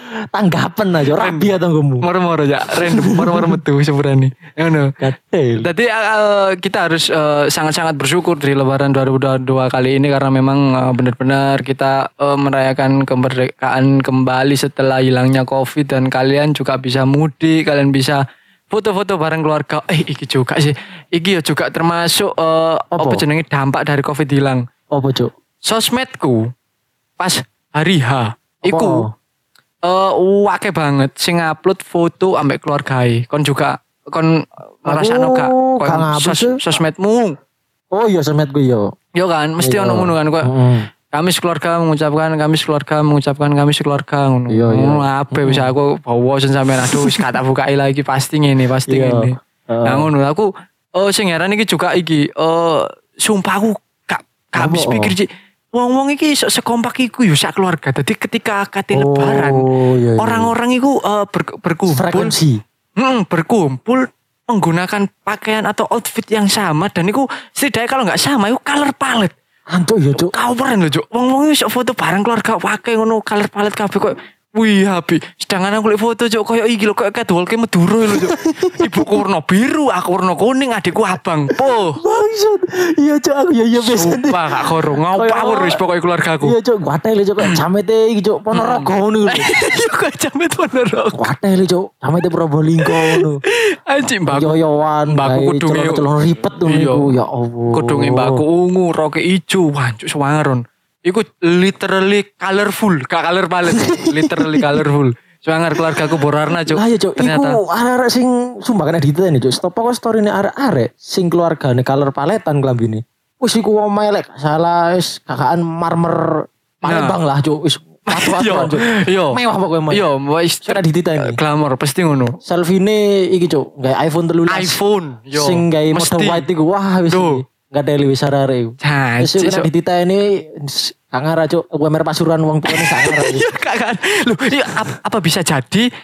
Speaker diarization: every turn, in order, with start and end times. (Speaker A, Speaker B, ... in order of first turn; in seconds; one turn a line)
Speaker A: 0.3-2.0
Speaker B: 1.2-1.5
Speaker B: 2.0-4.9
Speaker A: 2.8-3.6
Speaker A: 5.0-5.7
Speaker B: 5.6-24.6
Speaker A: 22.9-23.2
Speaker A: 24.9-25.3
Speaker B: 25.6-26.4
Speaker B: 27.2-29.1
Speaker A: 28.6-29.1
Speaker B: 29.9-37.3
Speaker A: 34.9-36.6
Speaker A: 37.9-38.9
Speaker B: 39.2-40.5
Speaker A: 39.6-40.9
Speaker B: 41.1-59.6
Speaker A: 44.5-45.7
Speaker A: 46.9-47.3
Speaker A: 48.9-50.1
Speaker A: 54.6-55.1
Speaker A: 58.9-60.5
Speaker B: 60.2-62.3
Speaker A: 61.9-62.6
Speaker B: 63.0-69.3
Speaker A: 69.7-70.3
Speaker B: 70.2-82.0
Speaker A: 78.1-79.2
Speaker A: 82.0-85.8
Speaker B: 83.8-86.5
Speaker A: 86.4-89.5
Speaker B: 88.5-91.3
Speaker A: 91.2-93.4
Speaker B: 92.8-94.6
Speaker A: 94.3-98.4
Speaker B: 95.1-96.0
Speaker B: 96.7-97.1
Speaker B: 97.7-107.6
Speaker A: 103.7-104.8
Speaker A: 105.8-120.0
Speaker B: 116.8-117.2
Speaker B: 118.1-119.4
Speaker B: 119.9-122.3
Speaker A: 120.6-121.4
Speaker A: 122.5-124.8
Speaker B: 124.5-126.4
Speaker A: 125.3-133.4
Speaker B: 127.1-127.4
Speaker B: 128.8-129.7
Speaker B: 132.7-135.9